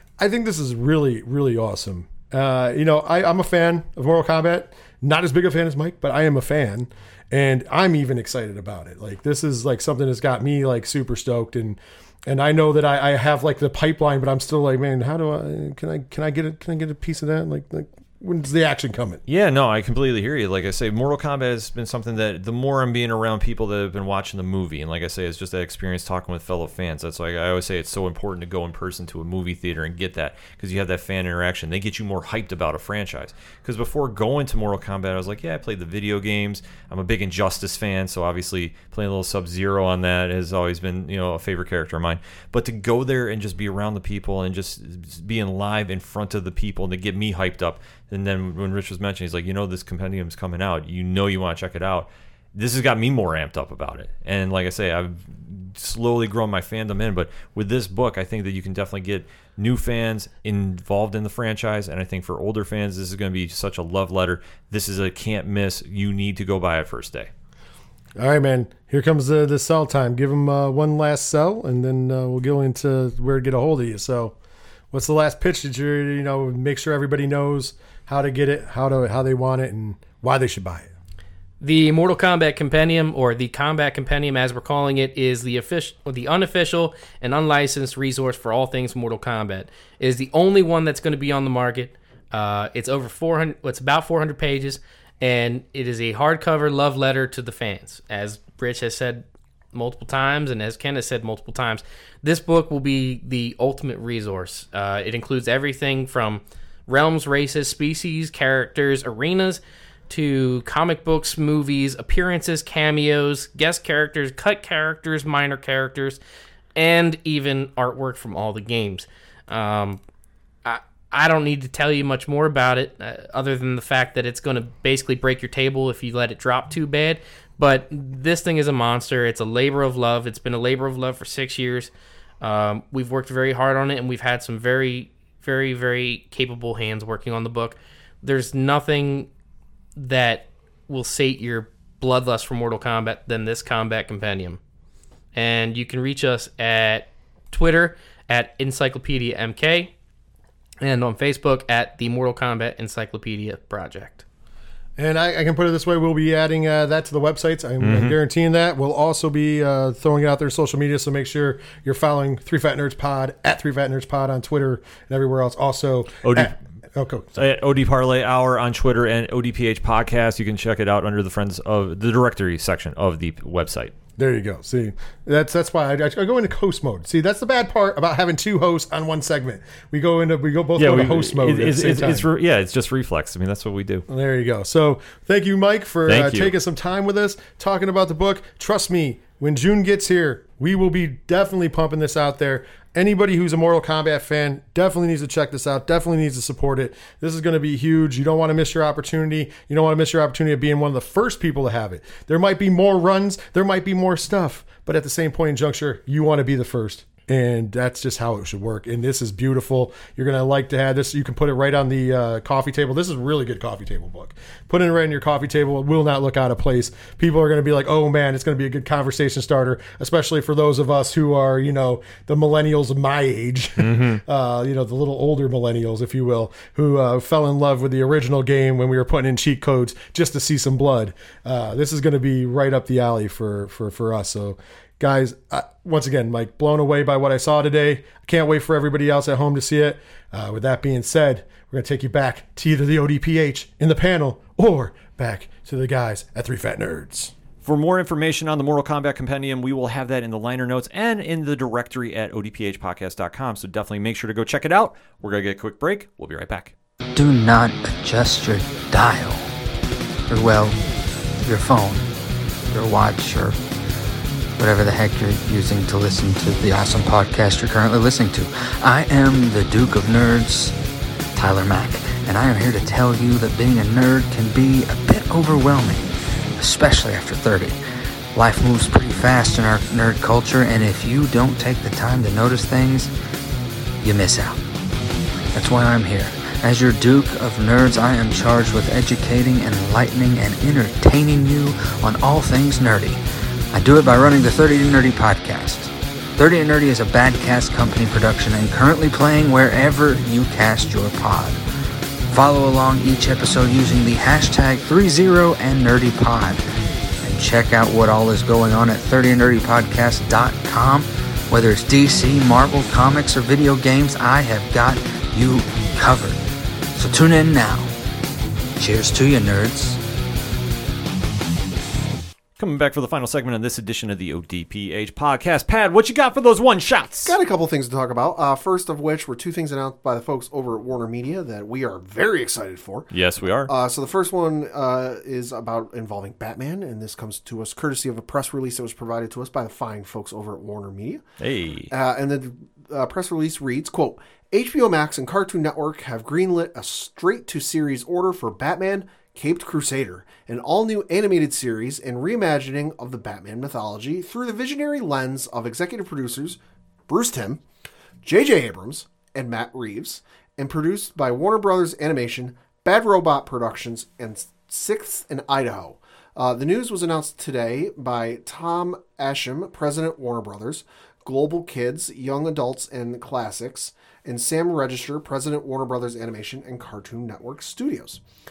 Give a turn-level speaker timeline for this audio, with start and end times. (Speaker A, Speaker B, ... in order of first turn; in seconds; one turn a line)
Speaker A: 0.2-19.2
Speaker B: 19.3-67.3
Speaker A: 68.2-74.3
Speaker A: 74.9-80.9
Speaker C: 81.6-116.2
Speaker C: 116.7-120.0
Speaker C: 120.6-139.3
Speaker C: 140.0-144.6
Speaker C: 145.3-149.9
Speaker C: 150.8-154.2
Speaker A: 155.0-167.4
Speaker B: 157.8-158.2
Speaker B: 166.2-166.5
Speaker B: 167.3-173.9
Speaker A: 174.2-182.3
Speaker B: 180.8-184.0
Speaker A: 184.1-247.3
Speaker B: 186.1-186.5
Speaker B: 223.8-224.2
Speaker B: 247.6-256.7
Speaker D: 257.1-259.5
Speaker D: 260.3-260.8
Speaker D: 261.4-262.1
Speaker D: 262.7-263.6
Speaker D: 264.6-270.7
Speaker D: 271.3-277.8
Speaker D: 278.3-283.1
Speaker D: 284.0-284.6
Speaker D: 285.5-293.2
Speaker D: 293.7-301.6
Speaker D: 302.3-306.6
Speaker D: 307.2-316.4
Speaker D: 316.9-317.9
Speaker D: 318.8-320.0
Speaker B: 322.6-327.3
Speaker E: 327.2-333.1
Speaker B: 333.1-333.7
Speaker E: 333.6-341.2
Speaker B: 341.4-341.9
Speaker E: 341.9-357.6
Speaker E: 358.2-378.2